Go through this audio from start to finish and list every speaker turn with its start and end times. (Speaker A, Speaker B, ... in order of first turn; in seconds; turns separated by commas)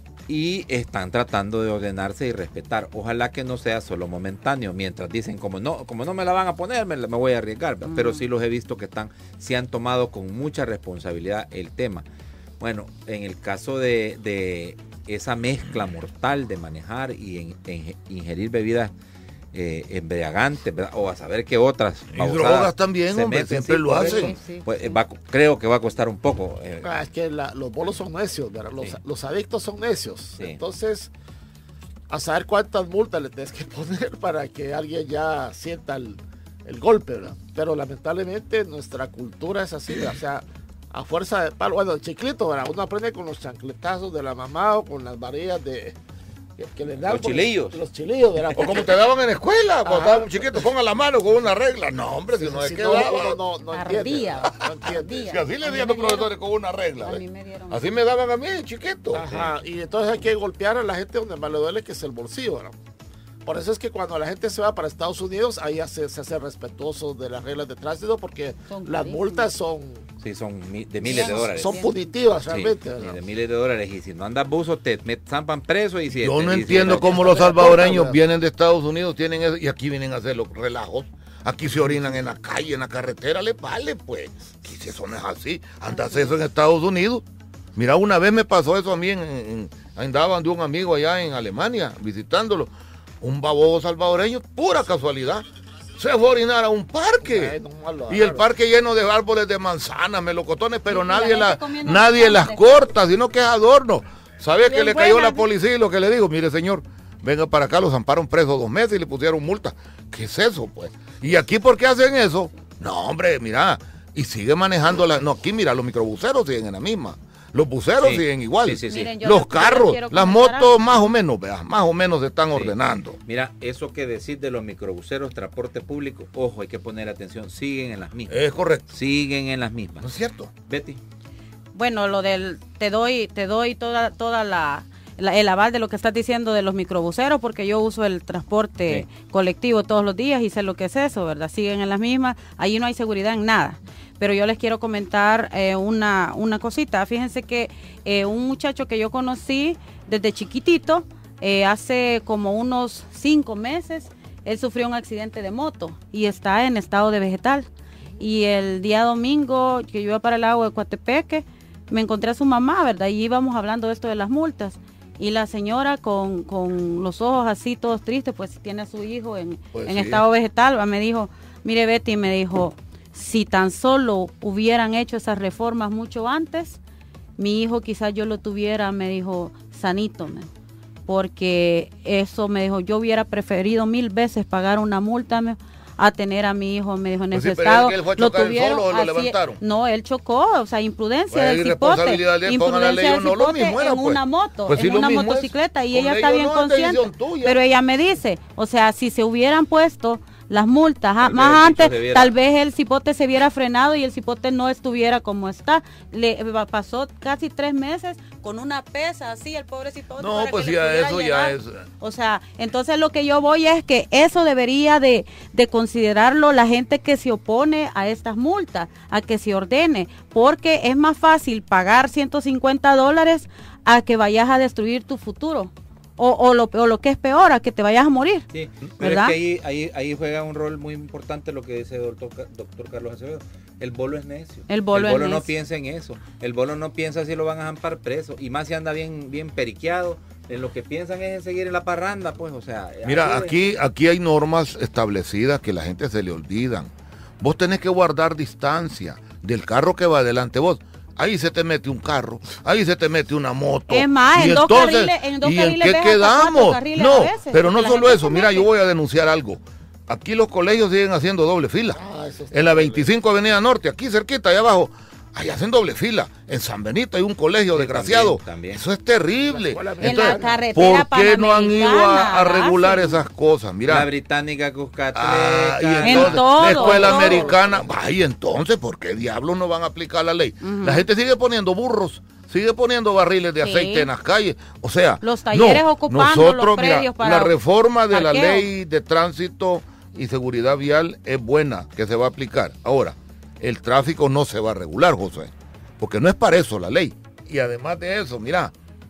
Speaker A: 0.3-12.0, Speaker B: 7.8-8.2, Speaker A: 12.6-18.9, Speaker A: 19.5-26.9, Speaker C: 22.1-24.3, Speaker B: 23.9-25.0, Speaker D: 26.8-31.1, Speaker D: 32.1-46.0, Speaker D: 46.6-48.9, Speaker A: 47.0-47.8, Speaker C: 48.5-53.4, Speaker D: 49.8-50.5, Speaker D: 52.3-55.4, Speaker B: 53.7-56.3, Speaker C: 55.2-59.5, Speaker B: 57.0-57.9, Speaker D: 59.1-62.8, Speaker D: 63.5-70.0, Speaker B: 68.7-69.5, Speaker A: 70.2-71.8, Speaker B: 71.0-71.9, Speaker D: 71.0-73.2, Speaker A: 72.5-77.6, Speaker C: 76.2-87.2, Speaker D: 76.7-78.2, Speaker C: 87.8-95.5, Speaker C: 96.0-97.5, Speaker D: 97.2-98.5, Speaker C: 98.1-123.2, Speaker B: 100.9-102.9, Speaker B: 104.6-105.5, Speaker A: 118.0-119.1, Speaker B: 118.9-121.0, Speaker A: 123.2-130.1, Speaker C: 128.3-128.8, Speaker C: 130.0-130.5, Speaker A: 130.7-131.0, Speaker B: 131.7-157.7, Speaker B: 158.2-176.8, Speaker C: 169.7-170.2, Speaker B: 177.4-180.5, Speaker B: 181.1-228.5, Speaker C: 187.3-189.6, Speaker C: 191.3-197.6, Speaker A: 201.2-202.3, Speaker C: 210.2-211.8, Speaker A: 228.5-243.8, Speaker B: 229.0-229.3, Speaker B: 234.7-235.5, Speaker C: 243.0-262.0, Speaker B: 253.9-258.7, Speaker D: 261.9-263.1, Speaker C: 262.5-274.1, Speaker A: 267.7-268.8, Speaker D: 269.5-270.6, Speaker B: 270.0-273.2, Speaker A: 273.9-277.0, Speaker C: 275.1-298.7, Speaker B: 276.0-277.5, Speaker D: 276.7-277.9, Speaker B: 280.6-281.1, Speaker B: 283.6-284.1, Speaker B: 285.2-287.5, Speaker B: 288.1-288.7